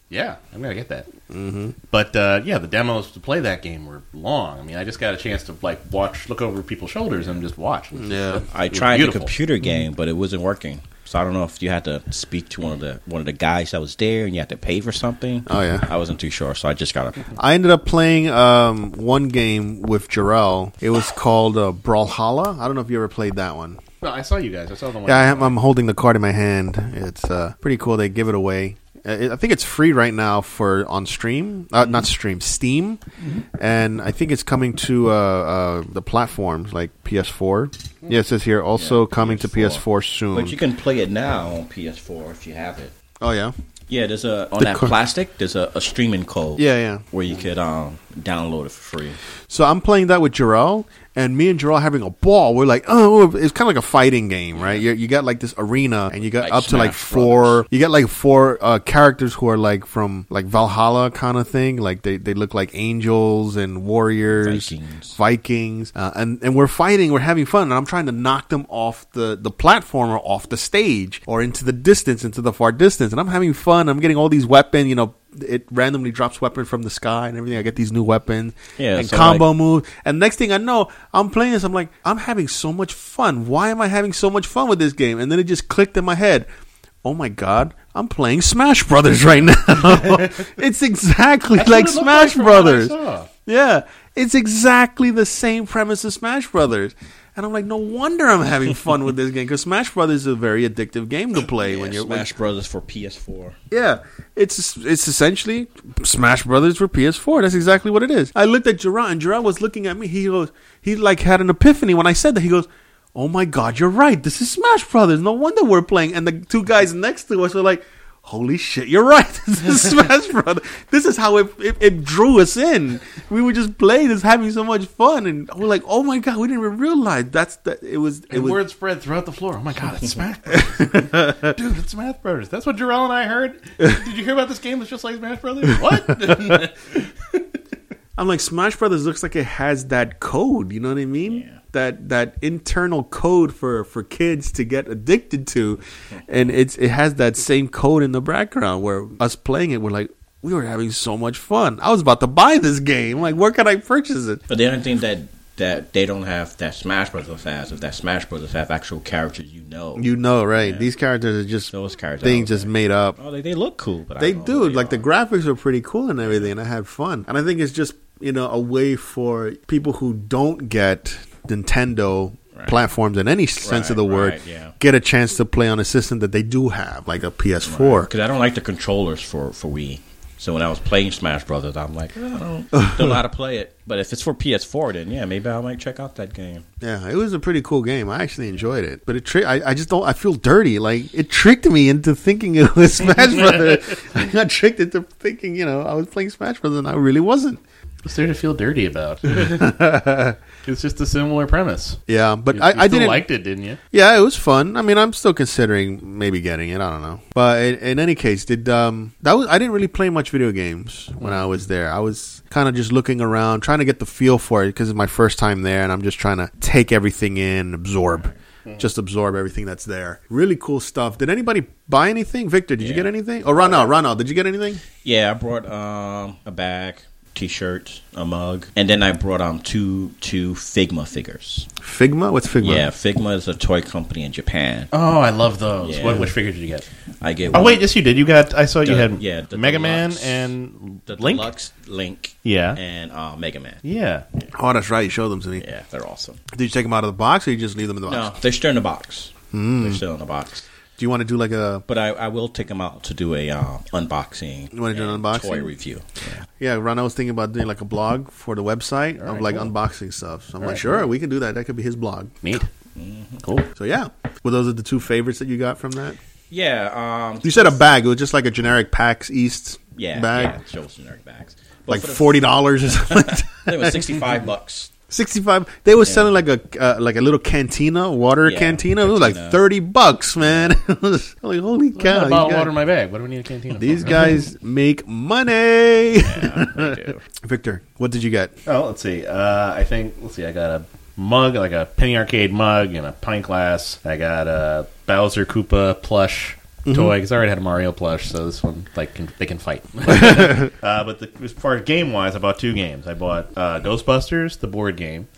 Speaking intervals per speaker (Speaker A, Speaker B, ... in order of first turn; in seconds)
Speaker A: 0.1-1.1, 1.9-9.3, 24.0-25.6, 90.0-90.3, 91.5-93.3, 128.3-137.4, 198.0-199.8, 200.6-202.0, 202.5-203.8, 234.9-236.8, 237.5-241.5, 242.4-242.8, 243.8-244.2, 259.2-259.7, 260.6-261.0, 262.4-262.7, 263.4-263.7, 281.9-284.4, 288.6-305.3
Speaker B: 1.3-1.7, 8.0-8.4, 15.5-15.9, 17.4-23.8, 25.1-33.0, 33.5-40.5, 43.2-43.5, 44.6-44.9, 46.6-47.0, 49.5-86.5, 87.0-102.3, 103.7-128.6, 130.5-131.5, 138.2-154.4, 159.9-161.7, 162.2-163.2, 164.2-178.1, 182.8-183.1, 186.8-197.6, 199.3-200.4, 202.1-203.2, 203.9-224.8, 231.8-232.9, 244.5-245.6, 246.5-248.3, 249.5-250.0, 251.0-251.8, 254.7-255.7, 256.6-262.4, 263.8-266.2, 267.4-270.6, 271.9-274.2, 275.1-282.7, 283.8-288.5, 296.8-297.1, 300.1-300.7
Speaker C: 8.5-17.3, 38.8-39.8, 40.3-42.9, 43.9-49.2, 56.4-57.6, 64.4-65.1, 78.8-79.5, 101.5-103.6, 141.3-141.6, 154.5-160.9, 161.7-165.0, 173.6-174.7, 177.6-186.6, 222.8-223.1, 225.0-231.7, 232.6-234.9, 235.8-236.3, 237.2-237.8, 238.8-240.5, 241.1-243.8, 245.6-246.4, 248.1-250.7, 251.9-256.4, 262.9-263.4, 266.5-267.8, 270.0-274.9, 276.0-276.3, 278.4-279.6, 280.4-280.7, 286.2-287.2